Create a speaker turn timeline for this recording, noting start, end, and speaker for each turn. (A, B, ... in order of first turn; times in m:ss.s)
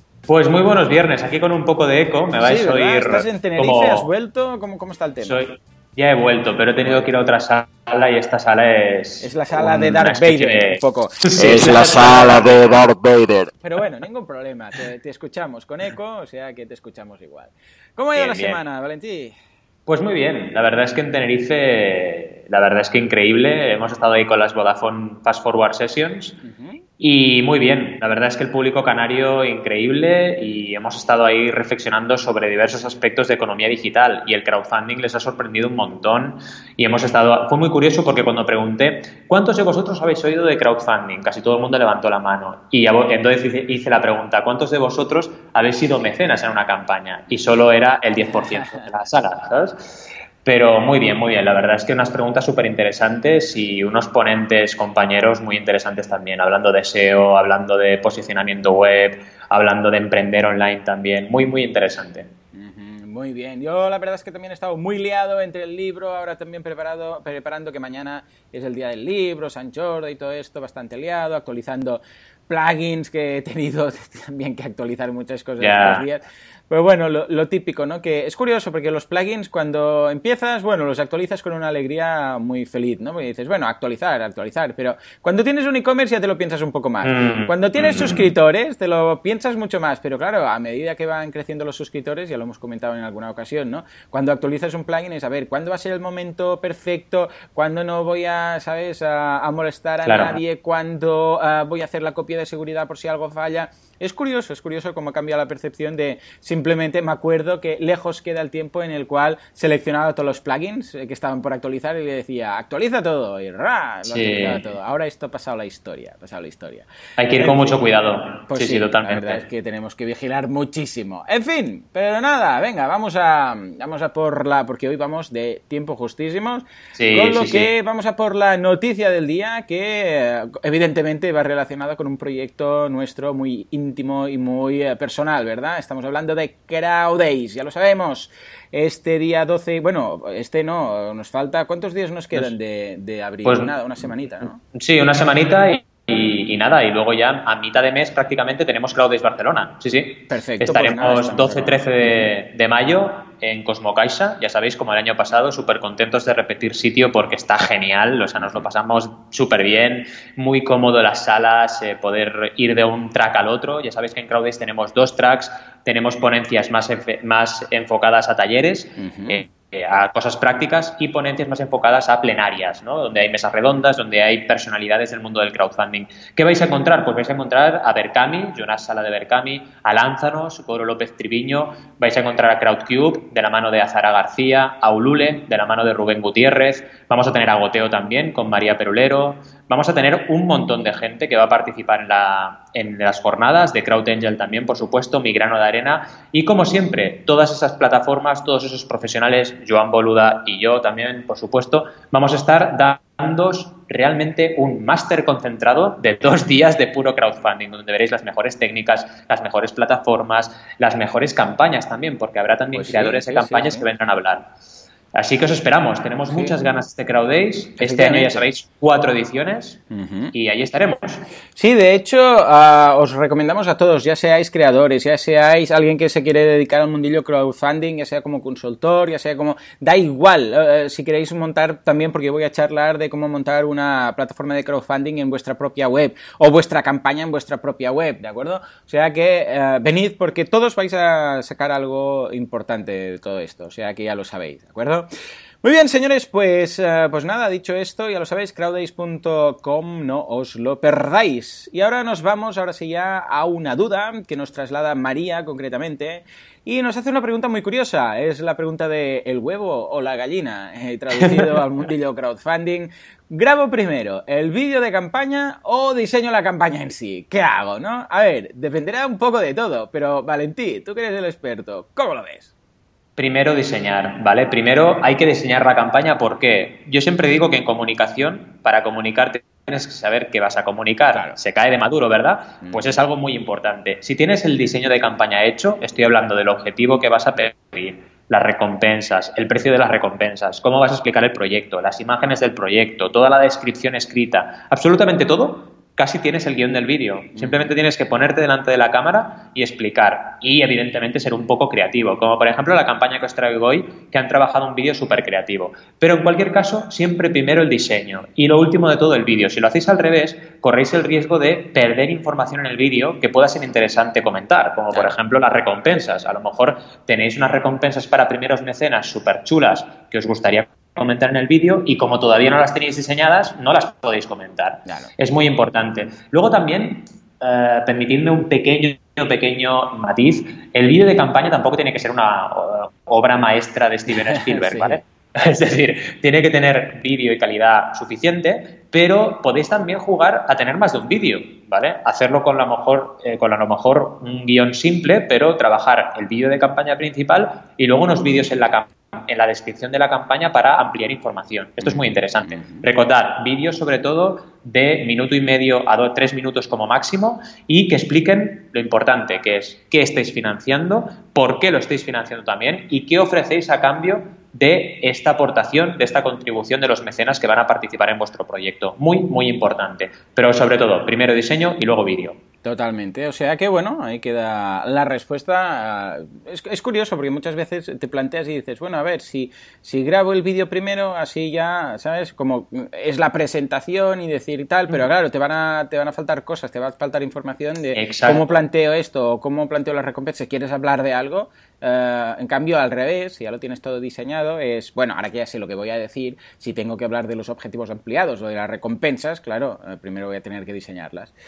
0:00.3-0:04.1 A
0:02.4-0:05.4 B
0:05.2-0:12.8 A
0:06.8-0:07.1 B
0:09.2-0:12.1 B
0:11.4-0:13.5 C
0:13.6-0:19.3 B
0:18.1-0:18.6 A
0:19.9-0:26.4 A
0:26.4-0:26.8 B
0:27.0-1:02.3 A
0:48.2-0:48.9 B
1:02.5-1:57.8 B
1:15.6-1:16.0 A
1:27.0-1:28.3 A
1:40.0-1:40.4 A
1:54.0-1:54.6 A
1:57.2-1:59.4 A
1:58.5-2:24.6 B
2:06.9-2:07.7 A
2:23.4-2:23.7 A
2:24.7-3:34.5 A
2:30.3-2:32.3 B
2:49.0-2:49.4 B
3:32.7-3:33.9 B
3:35.1-3:39.8 A
3:36.3-3:36.6 B
3:37.8-3:38.5 B
3:39.9-3:40.3 B
3:40.3-3:41.2 A
3:41.5-4:05.1 B
4:05.6-4:32.5 B
4:33.2-6:12.4 A
4:41.1-4:41.4 B
4:42.6-4:43.0 B
4:57.4-4:57.7 B
5:24.8-5:25.1 B
5:34.2-5:35.0 B
5:51.8-5:52.9 B
6:12.6-6:41.3 B
6:27.9-6:28.5 A